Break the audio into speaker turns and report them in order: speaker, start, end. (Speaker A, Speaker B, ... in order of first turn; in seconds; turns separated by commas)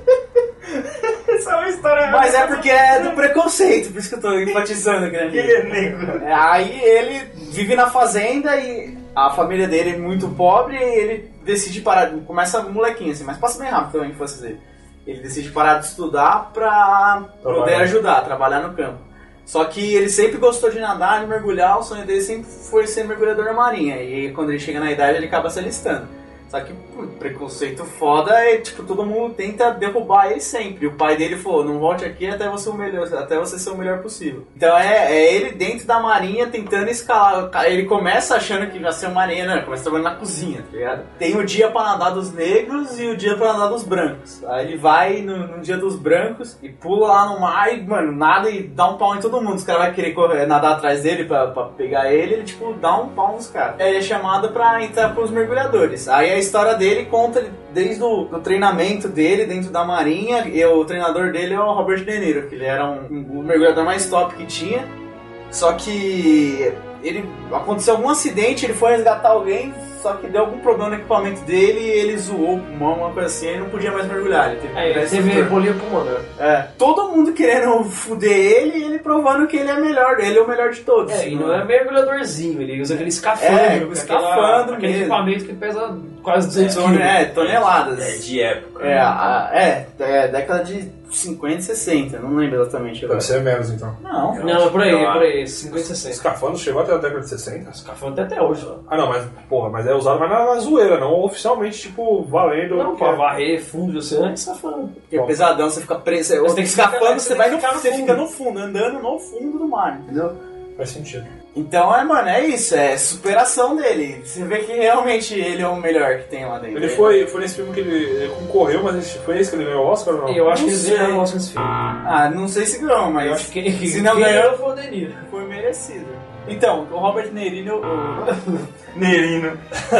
Speaker A: 2.0-64.9, Speaker B: 2.0-2.4, Speaker B: 5.3-6.2, Speaker C: 17.4-17.9, Speaker A: 65.5-75.5, Speaker D: 74.7-76.2, Speaker A: 76.4-81.6, Speaker D: 81.1-87.2, Speaker A: 83.4-85.2, Speaker A: 86.6-88.2, Speaker B: 87.3-89.2, Speaker A: 88.8-93.3, Speaker C: 93.1-94.0, Speaker A: 94.0-94.7, Speaker D: 94.4-96.2, Speaker C: 95.7-97.8, Speaker D: 97.8-98.8, Speaker C: 98.9-103.2, Speaker D: 102.7-105.0, Speaker A: 105.1-110.3, Speaker C: 105.1-105.4, Speaker D: 106.4-108.2, Speaker C: 110.8-111.3, Speaker A: 111.5-117.2, Speaker C: 116.7-120.6, Speaker D: 120.2-121.8, Speaker A: 120.5-121.2, Speaker A: 122.0-124.5, Speaker D: 123.2-125.2, Speaker A: 125.3-128.3, Speaker B: 128.9-129.6